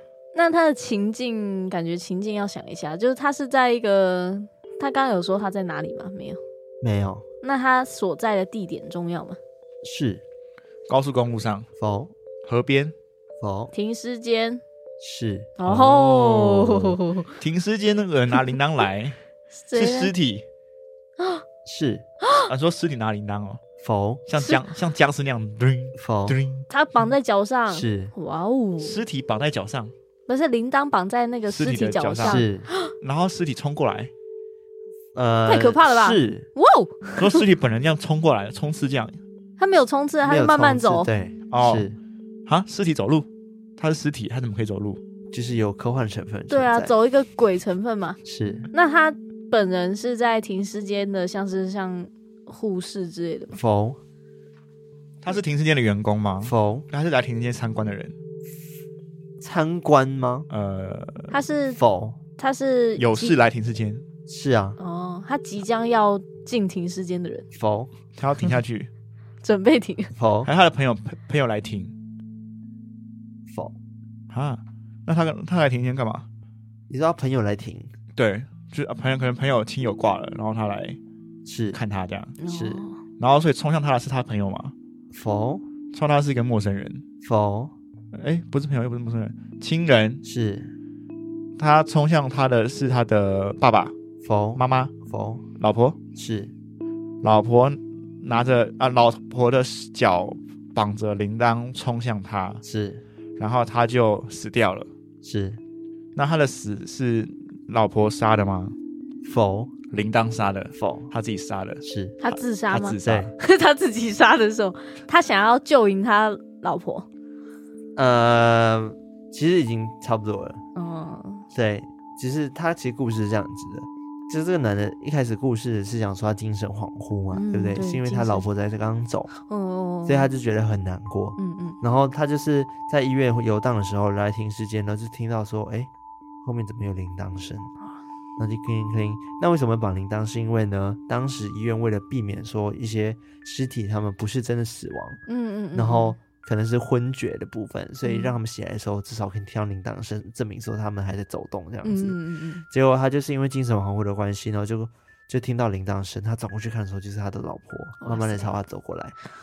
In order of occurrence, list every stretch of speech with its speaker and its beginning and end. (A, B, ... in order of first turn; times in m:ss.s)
0:00.4-0:06.4 A
0:06.8-0:07.2 B
0:07.4-0:09.4 A
0:09.8-0:10.2 B
0:10.9-0:11.7 C
0:11.8-0:12.1 B
0:12.4-0:12.9 C
0:13.4-0:13.7 B
0:13.7-0:14.6 A
0:15.0-0:15.5 B
0:15.6-0:17.3 A
0:15.6-0:19.2 C
0:19.7-0:20.1 A
0:19.8-0:20.4 C
0:21.6-0:22.0 B
0:22.2-0:22.5 A
0:22.5-0:23.6 C
0:23.8-0:24.2 B
0:24.3-0:26.7 C
0:26.0-0:26.4 B
0:26.7-0:29.0 A
0:27.7-0:28.1 B
0:28.8-0:29.9 C
0:30.3-0:32.9 A
0:31.5-0:32.4 C
0:32.2-0:32.7 B
0:33.0-0:34.1 C
0:35.2-0:36.5 B
0:35.5-0:37.4 A
0:37.2-0:39.2 C
0:39.6-0:41.1 A
0:40.2-0:42.0 B
0:41.5-0:41.9 C
0:42.5-0:45.0 C
0:45.3-0:46.9 B
0:46.5-0:48.2 A
0:48.2-0:48.7 B
0:48.7-0:53.6 A
0:53.5-0:54.0 B
0:55.2-0:58.2 C
0:56.4-0:56.9 B
0:59.4-1:00.5 B
1:00.5-1:01.3 C
1:01.3-1:01.8 A
1:01.8-1:02.2 B
1:02.4-1:03.4 A
1:03.0-1:04.0 C
1:04.3-1:04.8 B
1:04.8-1:07.5 A
1:07.5-1:07.9 B
1:08.2-1:08.9 C
1:09.4-1:10.1 A
1:10.2-1:10.5 B
1:10.4-1:11.9 C
1:13.5-1:13.8 B
1:14.3-1:16.3 C
1:16.9-1:17.9 B
1:18.2-1:21.0 C
1:21.5-1:21.8 B
1:21.7-1:22.4 C
1:22.4-1:23.0 A
1:22.5-1:22.8 B
1:23.2-1:24.7 C
1:25.1-1:25.6 B
1:25.9-1:27.0 C
1:27.2-1:27.7 B
1:28.1-1:30.2 C
1:30.2-1:30.8 B
1:31.6-1:33.9 C
1:34.2-1:35.4 B
1:34.6-1:34.9 C
1:35.6-1:36.0 C
1:36.2-1:36.5 B
1:37.2-1:42.6 C
1:42.6-1:43.0 B
1:43.4-1:44.9 C
1:45.2-1:45.6 B
1:46.2-1:48.7 C
1:49.2-1:49.7 B
1:49.9-1:53.3 C
1:50.8-1:51.1 B
1:51.8-1:52.2 B
1:52.2-1:57.1 A
1:53.0-1:53.3 B
1:58.0-2:00.6 B
2:00.8-2:01.4 A
2:01.5-2:09.3 B
2:07.3-2:08.4 A
2:09.5-2:10.3 A
2:10.0-2:15.9 B
2:11.4-2:11.8 A
2:16.4-2:17.7 B
2:18.4-2:25.2 B
2:25.3-2:26.2 A
2:25.8-2:32.2 B
2:28.0-2:28.4 A
2:31.8-2:32.6 A
2:32.7-2:39.2 B
2:38.0-2:38.5 A